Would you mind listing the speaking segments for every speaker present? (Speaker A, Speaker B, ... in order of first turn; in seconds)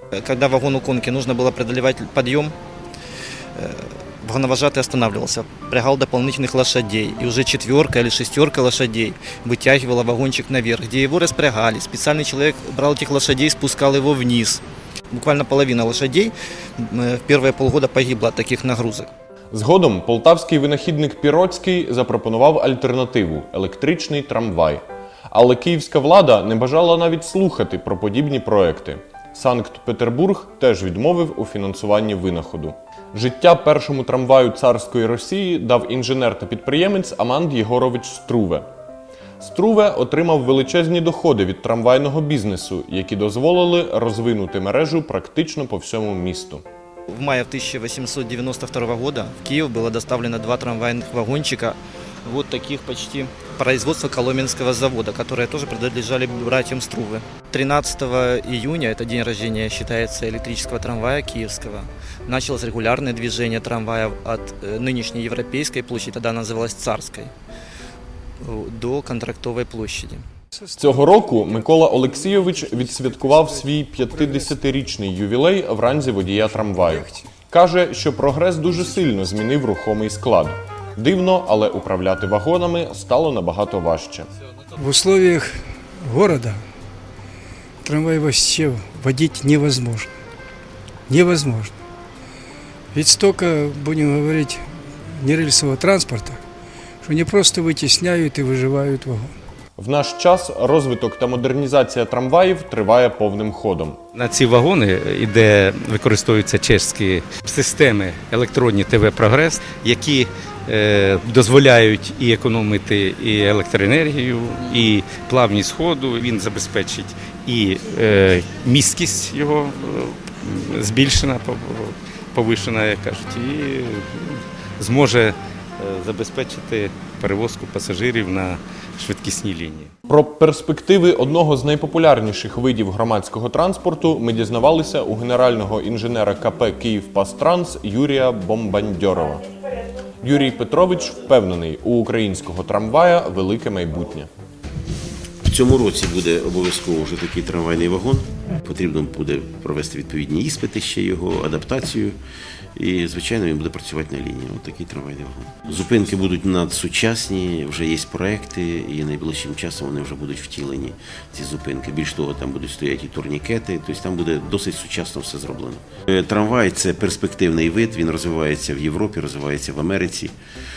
Speaker A: 0.1-2.5, 3.6-14.6, 15.1-19.1, 47.1-67.3, 68.4-70.2
Speaker B: 19.5-38.7, 39.4-46.6, 70.7-84.3, 99.8-104.0, 130.1-139.4, 140.2-144.3
Speaker C: 72.0-73.3, 84.8-86.6, 87.8-90.1, 91.1-91.7, 92.9-96.4, 97.0-99.3
Speaker D: 104.2-129.9
Speaker E: 145.4-152.2, 152.8-170.3